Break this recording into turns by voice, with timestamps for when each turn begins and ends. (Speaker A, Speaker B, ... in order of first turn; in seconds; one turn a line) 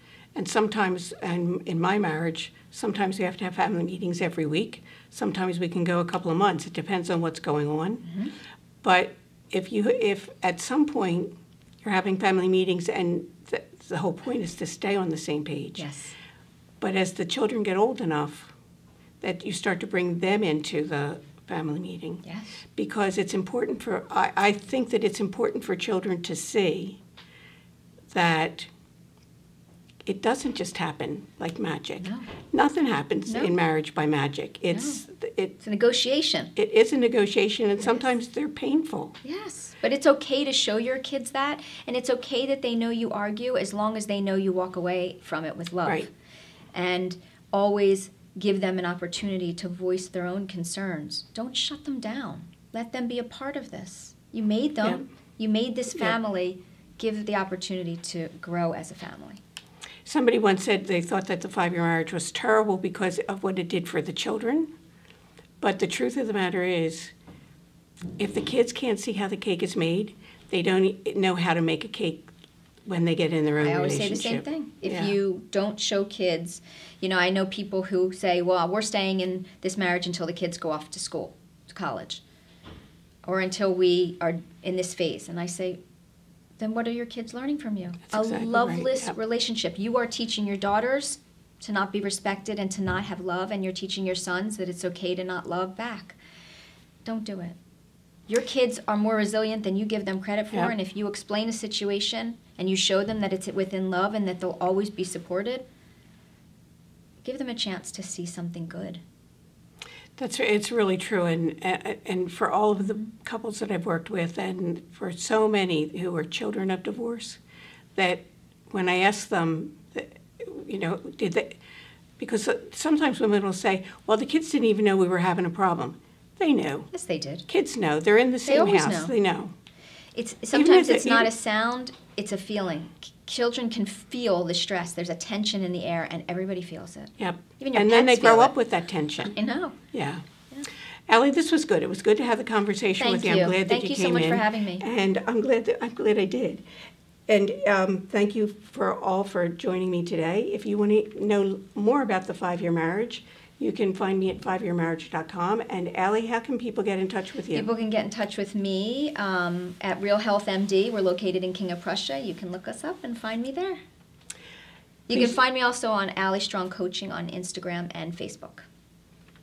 Speaker A: 0.3-8.0
Speaker B: 8.0-8.3
Speaker A: 8.8-15.9
Speaker B: 15.8-16.1
Speaker A: 16.8-18.5
Speaker A: 19.2-22.2
Speaker B: 22.2-22.6
Speaker A: 22.7-27.0
Speaker A: 28.1-28.7
Speaker A: 30.0-35.5
Speaker B: 32.0-32.3
Speaker B: 34.7-35.0
Speaker B: 35.6-36.5
Speaker A: 36.5-39.1
Speaker B: 39.2-46.1
Speaker B: 46.7-59.4
Speaker A: 60.0-64.7
Speaker A: 65.6-67.1
Speaker A: 68.2-72.3
Speaker A: 72.8-75.1
Speaker B: 73.6-82.2
Speaker B: 83.2-85.8
Speaker B: 86.6-96.2
Speaker A: 88.1-89.1
Speaker B: 97.0-97.6
Speaker B: 98.3-105.6
Speaker B: 107.2-109.0
Speaker A: 110.2-117.4
Speaker A: 117.9-121.6
Speaker A: 122.2-126.9
Speaker B: 126.9-127.5
Speaker A: 127.5-129.5
Speaker B: 128.4-129.1
Speaker B: 130.2-138.5
Speaker A: 130.5-131.3
Speaker A: 137.2-139.3
Speaker B: 139.2-139.8
Speaker A: 139.9-140.2
Speaker A: 141.1-146.6
Speaker B: 143.0-144.8
Speaker A: 147.3-157.7
Speaker B: 157.5-163.8
Speaker B: 165.1-168.7